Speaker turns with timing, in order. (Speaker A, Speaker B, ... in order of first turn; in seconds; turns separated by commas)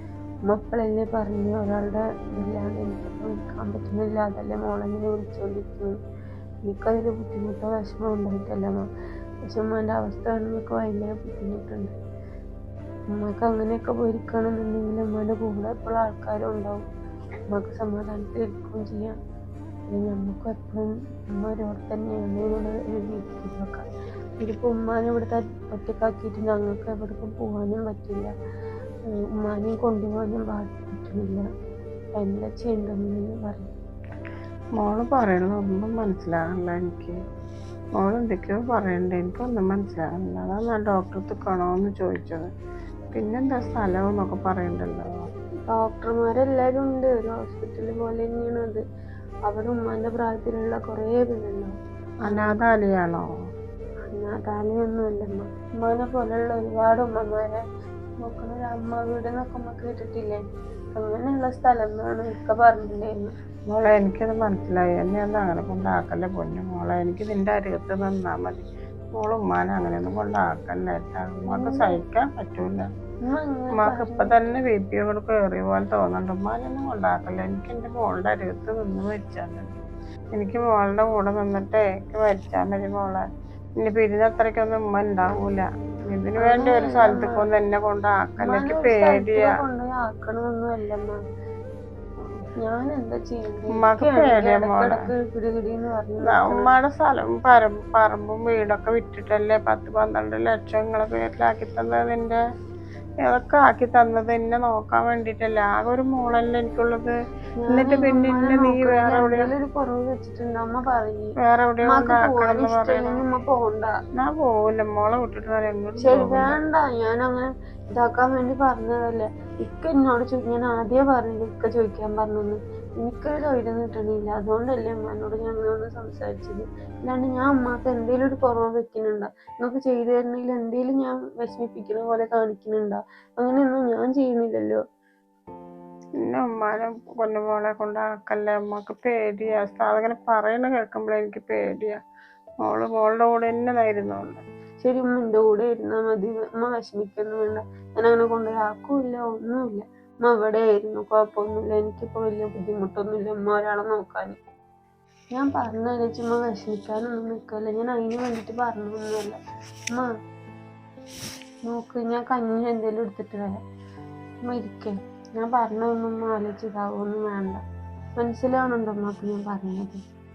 Speaker A: 0.5-5.9, Speaker A: 6.7-8.8, Speaker A: 9.5-11.9, Speaker A: 13.1-16.9, Speaker A: 17.5-19.1, Speaker A: 19.9-23.9, Speaker A: 24.4-28.3, Speaker A: 29.4-31.4, Speaker A: 32.2-33.7, Speaker B: 34.8-37.2, Speaker B: 38.0-42.5, Speaker B: 43.1-45.3, Speaker A: 45.7-48.8, Speaker A: 49.5-51.7, Speaker B: 52.2-53.2, Speaker A: 52.3-52.6, Speaker A: 54.1-57.6, Speaker A: 58.2-63.3, Speaker B: 63.7-72.9, Speaker A: 71.5-72.0, Speaker A: 73.2-74.5, Speaker B: 73.8-79.8, Speaker B: 80.3-83.2, Speaker B: 83.8-89.5, Speaker A: 86.4-87.3, Speaker A: 88.4-91.2, Speaker A: 92.6-96.7, Speaker B: 93.8-94.9, Speaker B: 96.3-102.4, Speaker B: 103.2-107.1, Speaker A: 107.6-111.3, Speaker B: 107.7-109.5, Speaker B: 111.4-113.2, Speaker A: 111.8-113.9, Speaker B: 114.2-116.5, Speaker A: 116.0-134.8, Speaker B: 136.2-142.0, Speaker B: 142.6-144.4, Speaker A: 144.8-154.4, Speaker A: 155.3-159.4, Speaker A: 161.7-163.5, Speaker A: 164.5-167.6, Speaker A: 168.2-170.0